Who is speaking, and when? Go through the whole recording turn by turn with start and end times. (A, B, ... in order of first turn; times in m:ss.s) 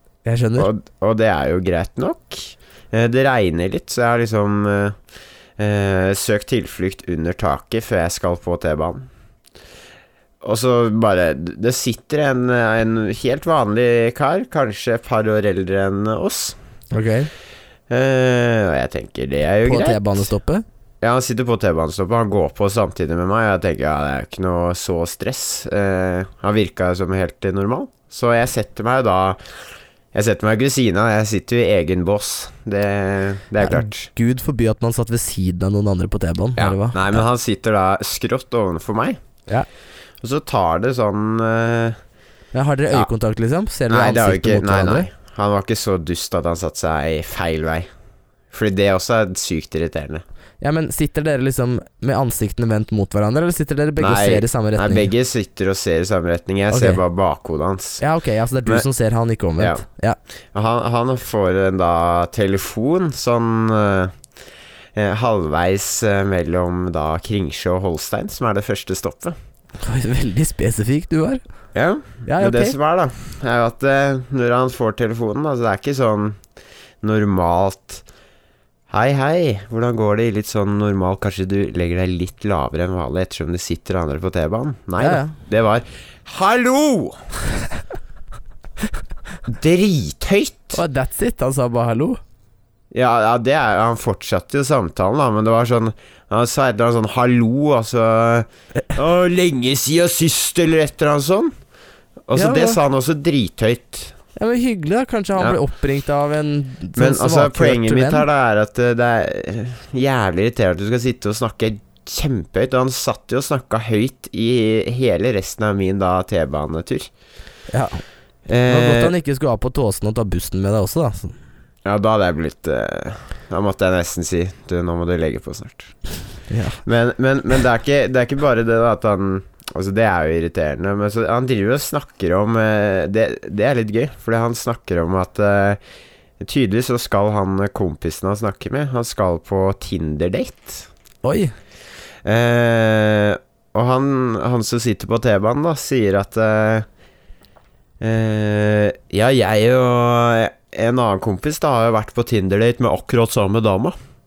0:00.2-0:00.7 A
0:00.6-0:05.0 B
0:05.6-0:09.1 B
0:10.4-0:16.6 B
0:16.9-0:17.3 A
0:17.9-0:20.3 B
0:19.6-0:20.6 A
0:21.0-0:34.1 B
0:33.6-0:37.2 A
0:36.6-0:39.2 B
0:40.2-0:42.0 B
0:42.5-0:45.1 A
0:43.9-0:47.9 B
0:48.5-0:50.2 B
0:50.6-0:55.1 A
0:54.0-0:58.0 B
0:56.7-0:57.0 A
0:58.0-1:00.2 A
1:00.5-1:04.2 B
1:04.9-1:09.3 B
1:09.8-1:11.4 A
1:11.7-1:16.4 B
1:12.3-1:12.7 A
1:17.0-1:18.0 B
1:18.9-1:27.2 B
1:25.0-1:25.4 A
1:29.4-1:30.8 B
1:30.7-1:32.2 A
1:32.9-1:41.5 B
1:42.3-1:44.2 B
1:42.3-1:42.8 A
1:44.4-1:48.2 A
1:47.0-1:57.1 B
1:57.7-1:58.0 A
1:58.5-1:59.1 B
1:58.6-2:01.4 A
2:01.8-2:05.9 B
2:06.5-2:06.8 A
2:06.8-2:15.8 B
2:16.4-2:20.9 B
2:21.2-2:21.5 A
2:22.2-2:26.8 B
2:28.0-2:33.9 B